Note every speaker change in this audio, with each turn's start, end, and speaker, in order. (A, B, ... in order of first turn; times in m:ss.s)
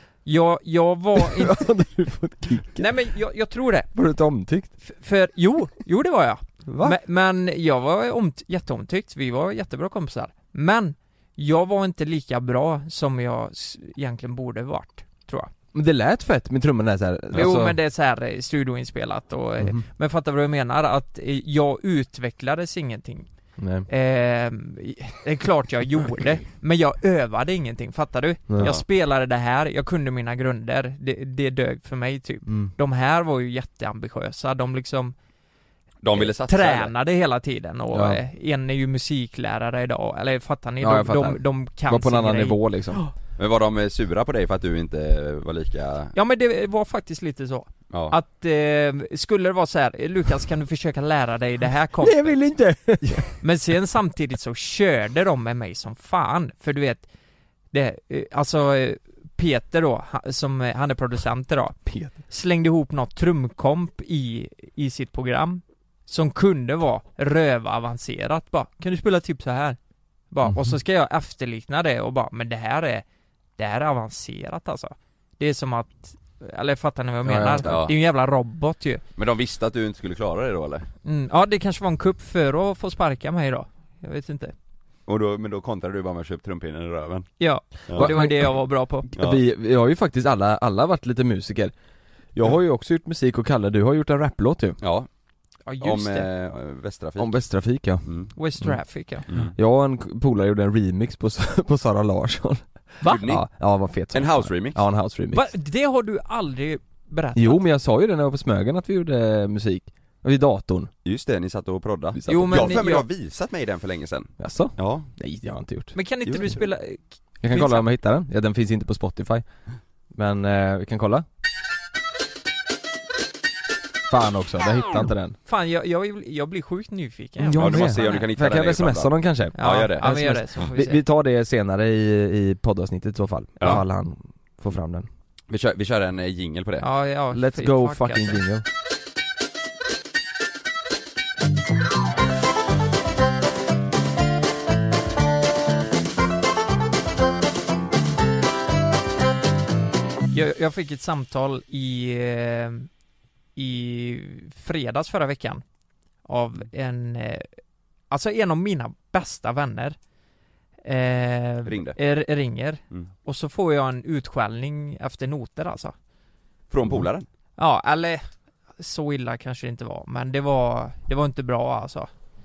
0:00.2-0:01.6 A
0:01.2-0:02.9 B
0:02.8-0:03.9 A
0:03.9-0:04.7 B
0:04.8-0:15.5 A
0:06.6-0:07.0 B
0:15.7-0:17.8 B
0:17.3-0:23.3 A
0:19.6-0:19.8 B
0:23.6-0:23.9 B
0:23.9-0:35.1 A
0:28.6-0:28.8 C
0:32.5-0:32.7 B
0:36.0-0:36.9 C
0:36.2-0:43.1 A
0:37.9-0:38.2 B
0:40.8-0:43.0 B
0:43.4-0:46.1 C
0:46.1-0:52.4 A
0:47.9-0:48.2 C
0:52.0-0:53.4 B
0:53.4-0:57.0 A
0:57.7-1:01.8 A
1:01.9-1:02.1 B
1:02.3-1:09.8 A
1:10.3-1:13.0 A
1:10.4-1:10.8 B
1:13.6-1:19.0 A
1:17.2-1:17.7 B
1:17.6-1:17.9 C
1:19.2-1:20.9 C
1:21.0-1:24.5 A
1:25.1-1:27.3 C
1:27.4-1:29.1 A
1:27.9-1:28.1 C
1:28.0-1:28.5 B
1:29.1-1:31.7 B
1:32.3-1:34.8 B
1:34.8-1:35.1 C
1:35.7-1:36.3 A
1:35.8-1:37.4 C
1:37.2-1:38.8 B
1:38.4-1:39.3 A
1:39.3-1:39.5 C
1:39.4-1:45.5 B
1:43.0-1:43.4 C
1:44.1-1:44.8 C
1:45.3-1:47.6 A
1:47.4-1:50.9 B
1:51.0-1:55.1 C
1:52.1-1:52.8 B
1:52.3-1:53.1 A
1:54.4-1:56.0 B
1:55.9-1:57.9 A
1:57.4-1:59.4 B
2:00.1-2:01.2 B
2:04.1-2:05.4 B
2:05.4-2:08.3 A
2:07.4-2:15.1 B
2:07.6-2:10.1 C
2:09.6-2:11.0 A
2:15.5-2:16.8 C
2:16.8-2:18.4 A
2:17.3-2:18.6 B
2:30.3-2:32.9 A
2:33.6-2:35.6 A
2:36.2-2:37.5 A
2:38.1-2:40.0 A
2:40.8-2:45.9 A
2:41.6-2:42.0 C
2:46.7-2:47.3 C
2:47.6-2:48.2 A
2:48.8-2:52.1 A